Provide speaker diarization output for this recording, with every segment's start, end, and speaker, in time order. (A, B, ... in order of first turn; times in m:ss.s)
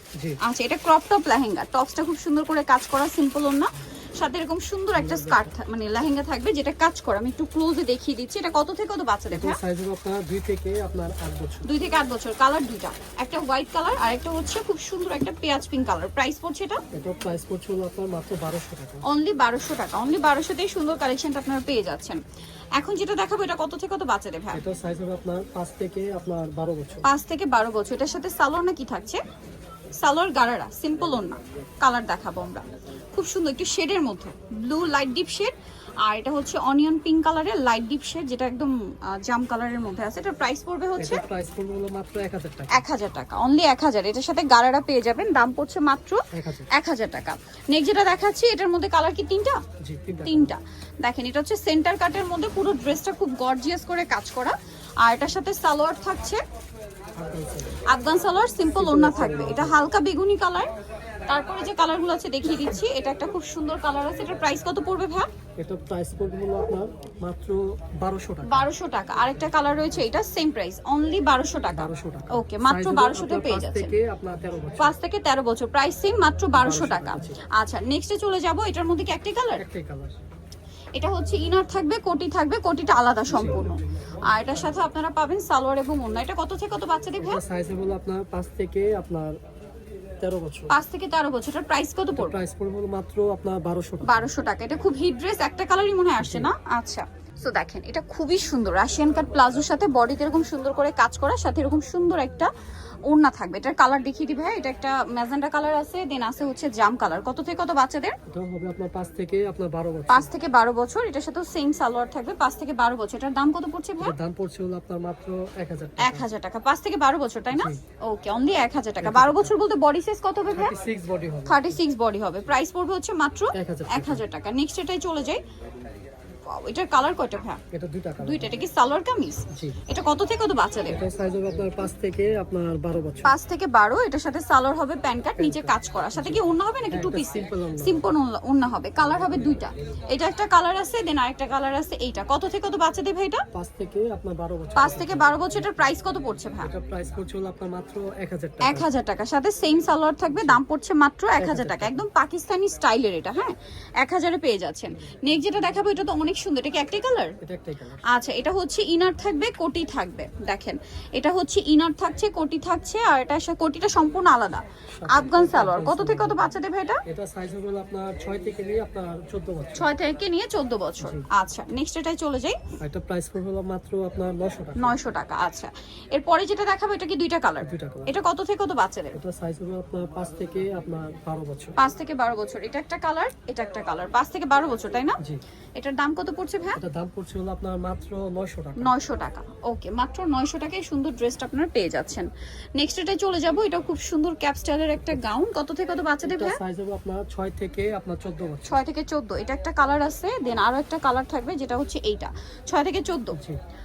0:00.4-0:09.6 A
0:04.9-0:05.5 B
0:09.3-0:11.7 B
0:11.6-0:16.8 A
0:16.9-0:19.0 B
0:19.0-0:22.2 A
0:22.8-0:24.6 A
0:24.5-0:27.0 B
0:27.0-0:29.2 A
0:30.0-0:41.2 A
0:41.0-0:42.8 B
0:42.7-0:49.6 A
0:46.3-0:46.7 B
0:49.8-0:50.5 B
0:50.2-0:56.4 A
0:57.2-0:57.7 B
0:57.9-1:00.7 A
0:58.7-0:59.8 B
1:01.3-1:05.3 A
1:05.6-1:08.7 B
1:08.4-1:13.9 A
1:11.7-1:14.9 B
1:14.8-1:19.6 A
1:16.6-1:17.4 B
1:19.6-1:20.2 B
1:20.9-1:27.4 A
1:23.3-1:23.8 B
1:27.2-1:29.4 B
1:30.2-1:30.7 B
1:30.7-1:32.4 A
1:32.2-1:34.3 B
1:34.0-1:42.5 A
1:36.2-1:36.5 B
1:43.1-1:48.2 A
1:48.3-1:50.3 B
1:50.1-1:54.1 A
1:54.0-1:56.3 B
1:56.0-2:00.8 A
1:57.5-1:57.8 B
1:59.0-1:59.5 B
2:00.5-2:01.8 B
2:01.4-2:05.4 A
2:03.5-2:04.2 B
2:06.5-2:07.6 A
2:07.7-2:08.5 B
2:08.2-2:11.0 A
2:09.5-2:09.8 B
2:10.9-2:13.4 B
2:13.2-2:23.4 A
2:15.4-2:18.0 B
2:23.5-2:25.7 B
2:24.8-2:26.7 A
2:26.6-2:28.9 B
2:28.6-2:37.4 A
2:30.3-2:30.6 B
2:31.4-2:32.0 B
2:37.4-2:38.0 B
2:38.1-2:47.0 A
2:44.9-2:46.5 B
2:47.0-2:49.9 B
2:49.7-2:52.6 A
2:51.0-2:51.2 B
2:52.8-2:55.0 B
2:54.8-2:59.2 A
2:57.6-2:58.1 B
2:59.1-3:01.7 B
3:01.8-3:05.2 A
3:05.8-3:06.8 A
3:06.8-3:08.9 B
3:08.8-3:16.6 A
3:16.2-3:18.8 B
3:18.6-3:23.4 A
3:23.3-3:23.6 B